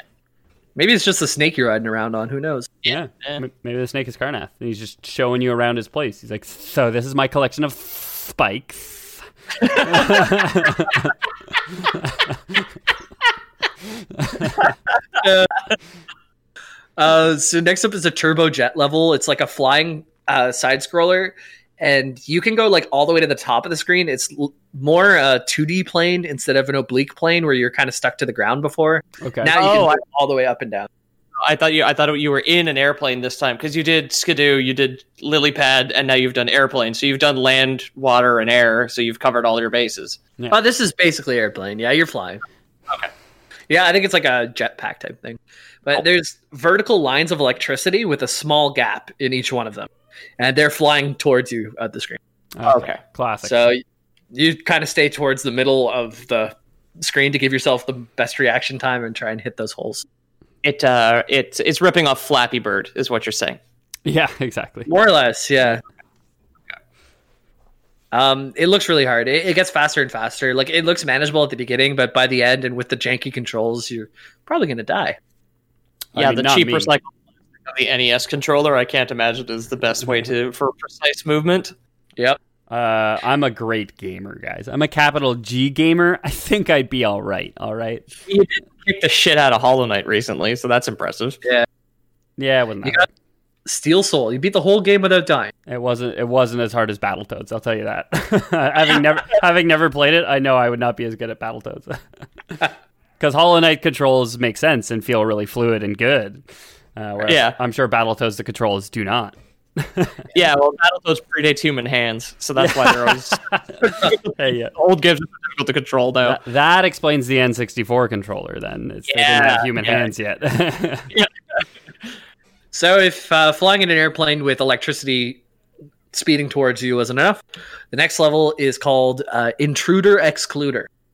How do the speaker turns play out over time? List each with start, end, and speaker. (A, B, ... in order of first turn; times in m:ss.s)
0:00.8-0:02.7 A
0:02.8-0:03.4 B
0:02.8-0:11.1 C
0:11.8-0:12.3 C
0:14.2-0:14.6 C
0:15.2-0:15.6 A
0:17.0-0:30.9 A
0:29.2-0:29.5 C
0:29.5-0:30.0 B
0:31.4-0:40.2 B
0:40.5-0:42.4 A
0:43.7-0:52.2 A
0:52.6-0:53.6 C
0:52.6-0:53.0 B
0:53.4-1:00.0 A
1:00.6-1:03.6 B
1:04.0-1:04.9 C
1:04.9-1:05.8 A
1:08.1-1:15.2 A
1:16.1-1:16.9 C
1:16.1-1:17.1 B
1:17.6-1:21.7 B
1:22.7-1:28.1 C
1:28.3-1:31.4 B
1:32.4-1:33.1 C
1:33.6-1:35.5 A
1:35.7-1:42.0 C
1:43.2-1:46.4 C
1:47.0-1:50.2 C
1:47.3-1:47.6 B
1:50.3-1:56.4 B
1:52.6-1:54.7 C
1:56.2-2:01.1 C
1:59.1-2:00.1 B
2:01.1-2:01.6 B
2:02.7-2:05.4 A
2:06.1-2:07.4 A
2:07.9-2:10.9 A